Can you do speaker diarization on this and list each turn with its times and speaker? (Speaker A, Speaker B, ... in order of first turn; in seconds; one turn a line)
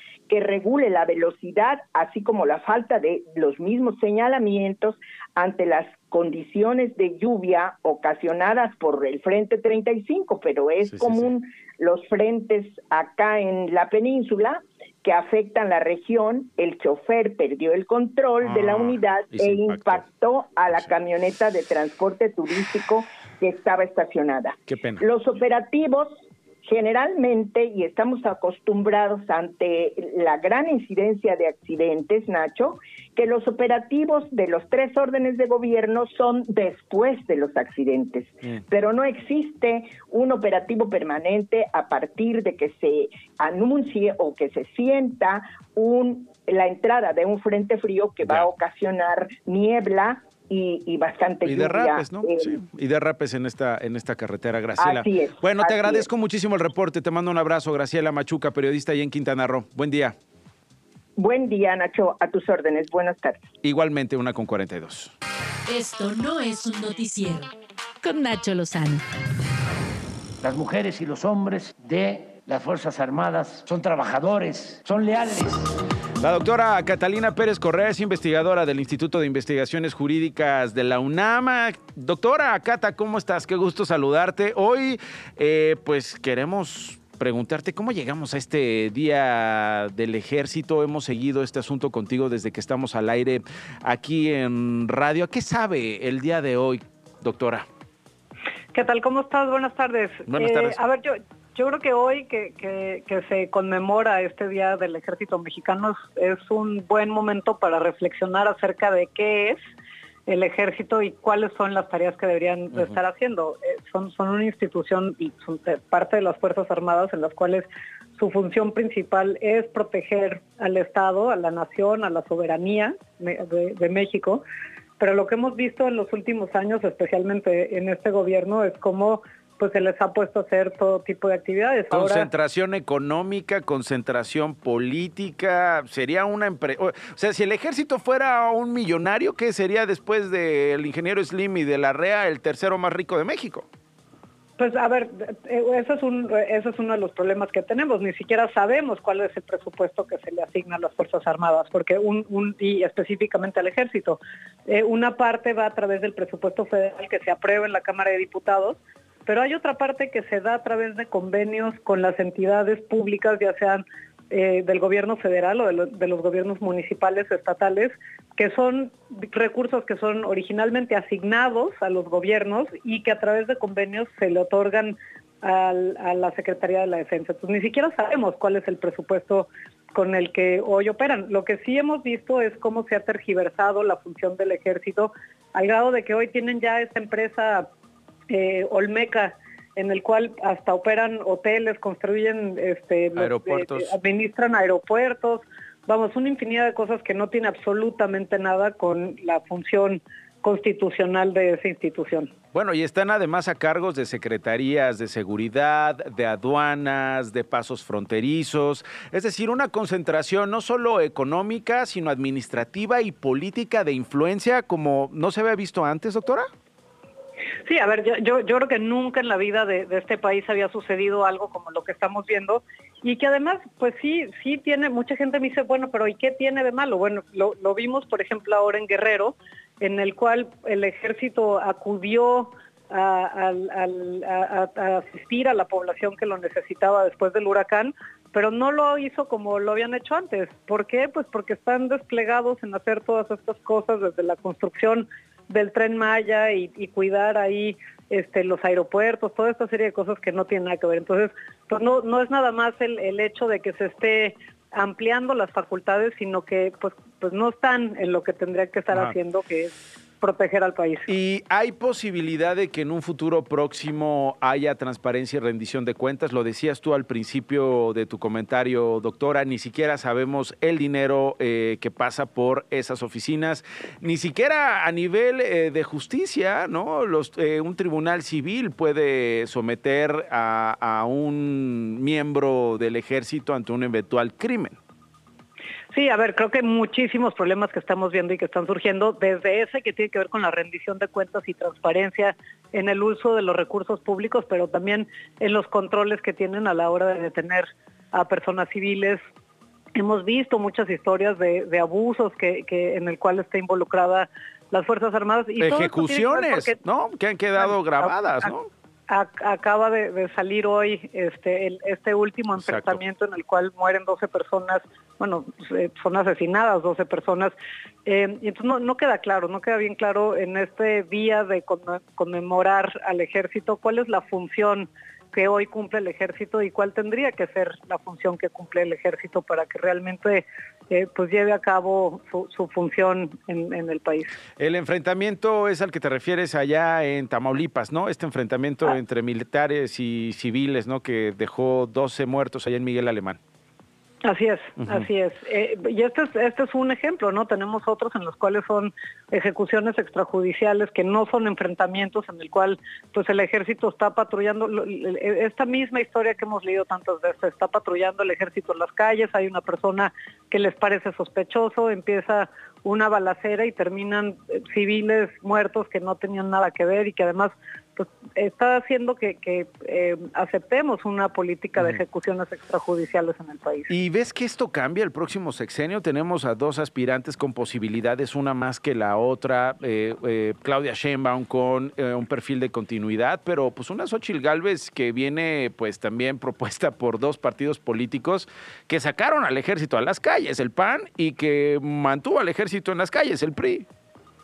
Speaker A: 0.3-52.6
Speaker B: 10.9-11.3
Speaker B: 18.4-20.0
Speaker B: 24.7-25.0
Speaker B: 48.2-48.5
Speaker B: 51.4-60.1
Speaker A: 54.8-56.1
Speaker A: 61.2-63.4
Speaker B: 63.6-65.1
Speaker C: 65.7-67.5
Speaker C: 68.0-69.0
Speaker D: 70.4-75.7
Speaker B: 76.2-97.7
Speaker E: 98.7-109.6
Speaker B: 100.3-100.8
Speaker E: 110.3-124.4
Speaker E: 125.0-132.3
Speaker B: 131.9-143.7
Speaker E: 144.6-187.7
Speaker E: 188.3-202.3
Speaker B: 193.2-193.9
Speaker B: 202.5-216.5
Speaker E: 217.7-261.1
Speaker B: 261.1-284.8
Speaker E: 285.9-299.2
Speaker E: 299.9-306.8
Speaker B: 305.6-308.7
Speaker E: 307.6-308.5
Speaker E: 309.1-317.5
Speaker B: 312.6-313.0
Speaker E: 318.1-334.3
Speaker B: 334.6-343.4
Speaker E: 344.2-373.9
Speaker B: 373.9-393.9